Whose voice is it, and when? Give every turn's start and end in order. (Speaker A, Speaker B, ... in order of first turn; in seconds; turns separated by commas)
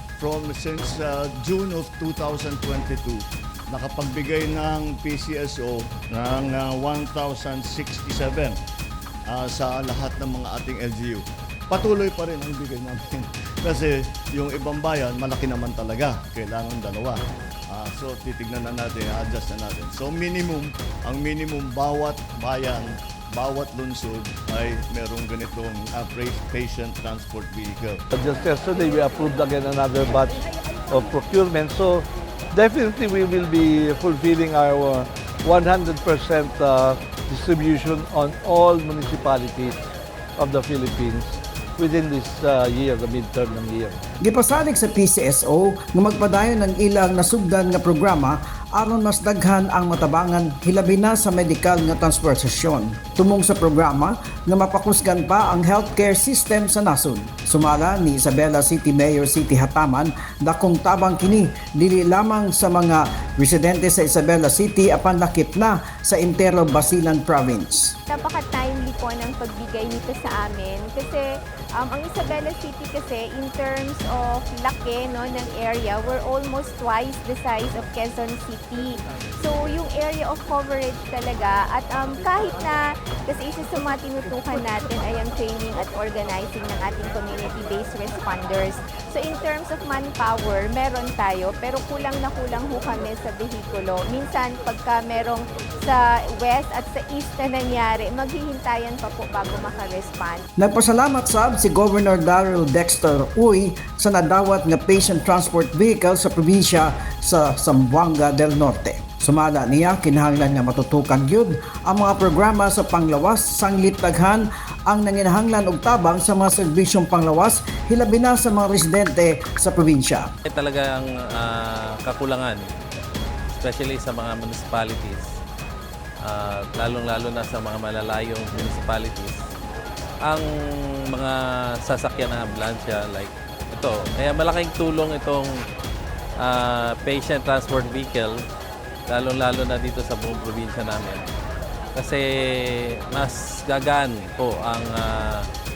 Speaker A: 0.2-3.2, Speaker A: 3.7-8.6, Speaker A: 9.3-17.2, Speaker A: 17.7-28.0, Speaker B: 28.1-39.8, Speaker B: 40.4-44.0, Speaker C: 44.2-68.0, Speaker D: 68.1-100.5, Speaker C: 100.6-120.3, Speaker E: 120.5-122.7, Speaker E: 123.5-125.3, Speaker E: 126.2-129.4, Speaker E: 131.1-135.5, Speaker E: 136.4-138.4, Speaker E: 139.1-141.3, Speaker E: 141.9-145.5